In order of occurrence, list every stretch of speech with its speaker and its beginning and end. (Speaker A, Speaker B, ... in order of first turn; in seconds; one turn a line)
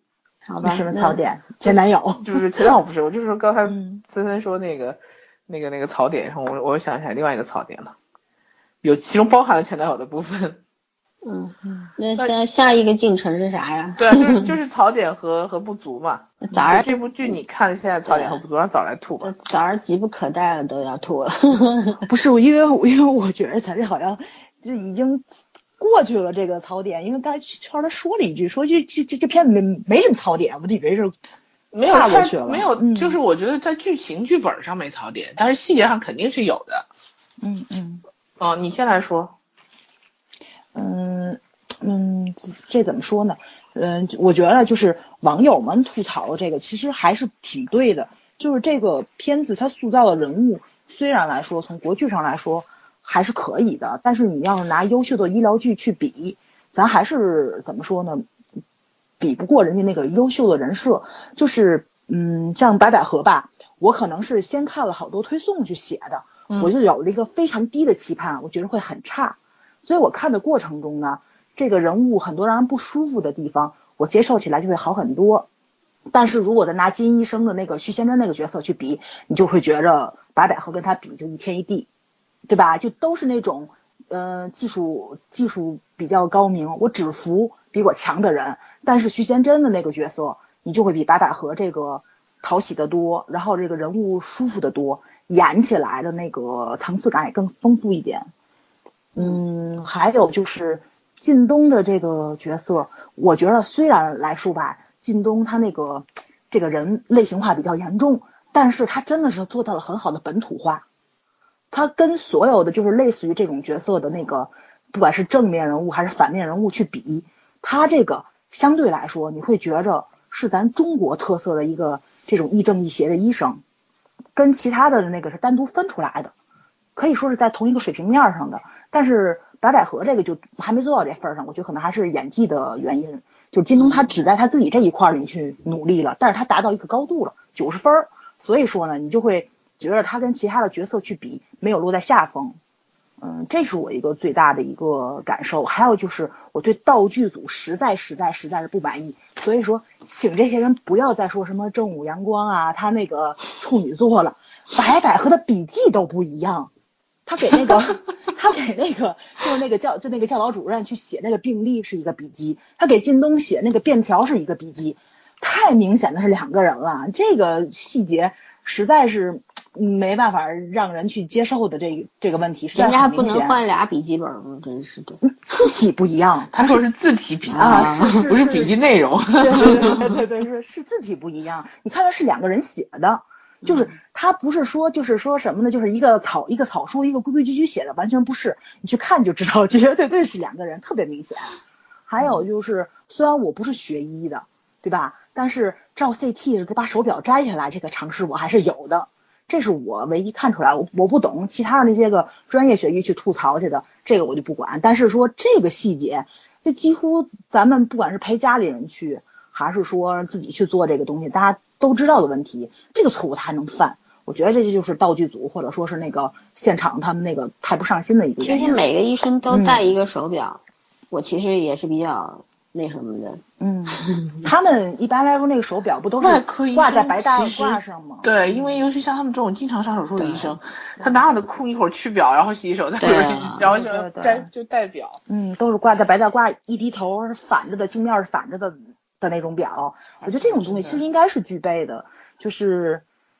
Speaker A: 0.5-1.2
Speaker B: 0.6-2.6
Speaker C: 1.6-7.9
Speaker B: 3.7-4.0
Speaker C: 8.8-10.6
Speaker A: 11.2-14.5
Speaker B: 11.6-11.9
Speaker C: 14.0-19.3
Speaker A: 16.4-17.3
Speaker A: 18.1-18.4
Speaker A: 19.2-22.0
Speaker B: 22.0-25.3
Speaker B: 25.8-31.1
Speaker C: 31.7-36.9
Speaker B: 31.9-33.2
Speaker B: 37.4-38.0
Speaker C: 38.4-39.3
Speaker B: 40.7-58.2
Speaker B: 59.2-75.5
Speaker B: 76.1-81.9
Speaker B: 82.5-98.3
Speaker B: 99.1-110.8
Speaker B: 111.7-123.6
Speaker B: 124.3-126.3
Speaker B: 127.0-142.6
Speaker A: 133.8-134.0
Speaker B: 143.2-156.7
Speaker B: 157.2-173.6
Speaker A: 172.7-175.2
Speaker B: 175.2-176.8
Speaker C: 176.5-180.1
Speaker A: 177.5-178.2
Speaker B: 177.5-178.8
Speaker B: 179.4-191.5
Speaker B: 192.1-218.8
Speaker A: 218.4-224.4
Speaker B: 219.5-219.9
Speaker B: 223.6-228.3
Speaker C: 226.2-235.2
Speaker A: 230.2-230.5
Speaker A: 233.0-233.7
Speaker B: 233.6-234.5
Speaker B: 235.3-243.0
Speaker C: 240.2-241.0